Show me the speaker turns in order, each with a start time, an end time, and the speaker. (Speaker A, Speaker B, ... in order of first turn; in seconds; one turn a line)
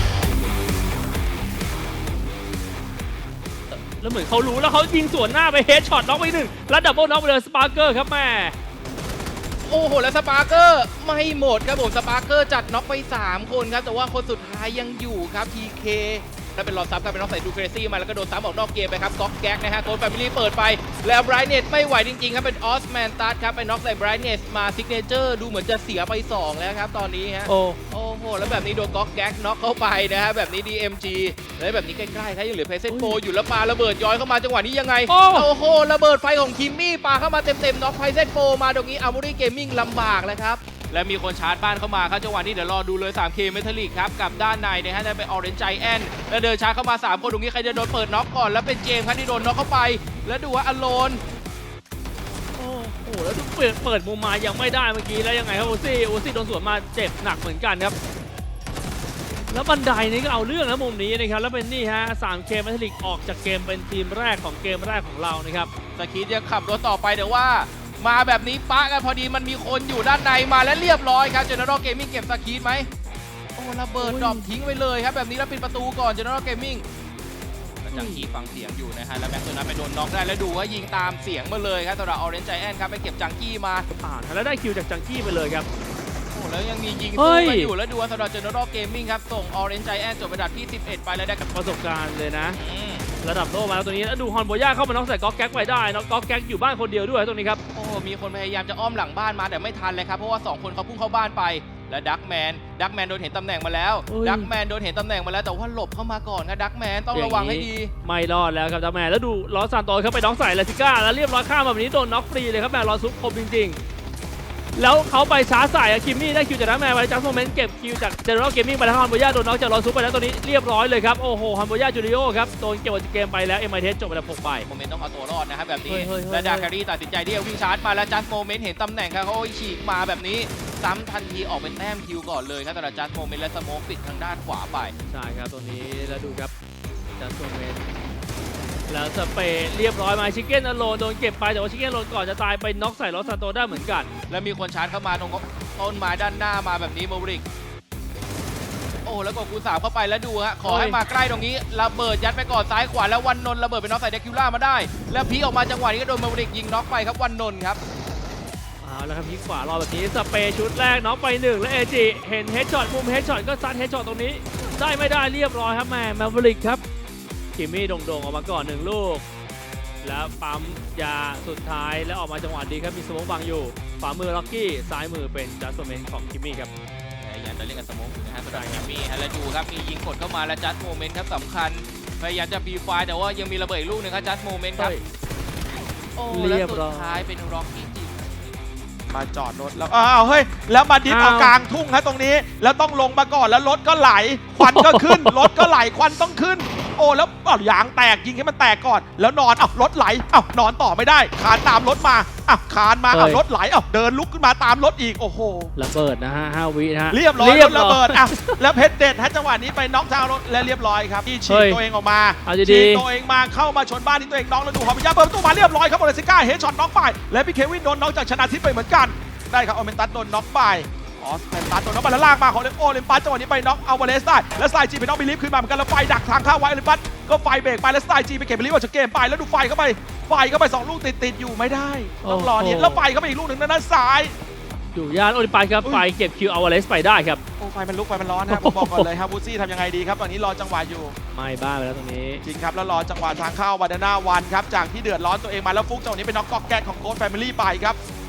Speaker A: 3.7-8.6
Speaker B: 9.7-51.2
Speaker A: 27.5-27.8
Speaker A: 32.9-33.2
Speaker A: 35.1-35.5
Speaker A: 52.6-58.0
Speaker A: 59.5-65.7
Speaker B: 66.0-72.9
Speaker B: 73.6-76.8
Speaker A: 74.0-74.5
Speaker B: 77.8-83.9
Speaker A: 77.9-78.2
Speaker A: 83.9-85.7
Speaker B: 86.3-91.4
Speaker A: 87.2-87.7
Speaker A: 91.4-92.6
Speaker B: 92.5-93.1
Speaker A: 93.2-97.6
Speaker B: 97.7-107.9
Speaker A: 104.1-104.5
Speaker A: 107.1-113.8
Speaker A: 114.8-124.7
Speaker B: 124.7-134.9
Speaker A: 125.9-126.7
Speaker A: 135.1-136.5
Speaker A: 137.2-137.8
Speaker A: 138.9-144.1
Speaker B: 144.3-147.4
Speaker B: 149.1-157.8
Speaker A: 150.6-151.0
Speaker A: 158.8-166.8
Speaker A: 167.6-169.2
Speaker A: 170.0-176.7
Speaker B: 177.2-184.9
Speaker A: 178.5-178.8
Speaker A: 184.8-185.0
Speaker B: 186.2-188.2
Speaker A: 186.3-187.3
Speaker C: 189.1-205.7
Speaker A: 191.1-191.6
Speaker A: 194.6-195.7
Speaker A: 203.1-203.4
Speaker A: 205.8-208.5
Speaker C: 207.1-234.3
Speaker A: 211.5-211.8
Speaker A: 212.4-213.0
Speaker A: 232.2-233.0
Speaker A: 234.9-237.4
Speaker C: 237.6-241.2
Speaker A: 238.5-239.1
Speaker A: 241.3-242.4
Speaker C: 242.4-248.0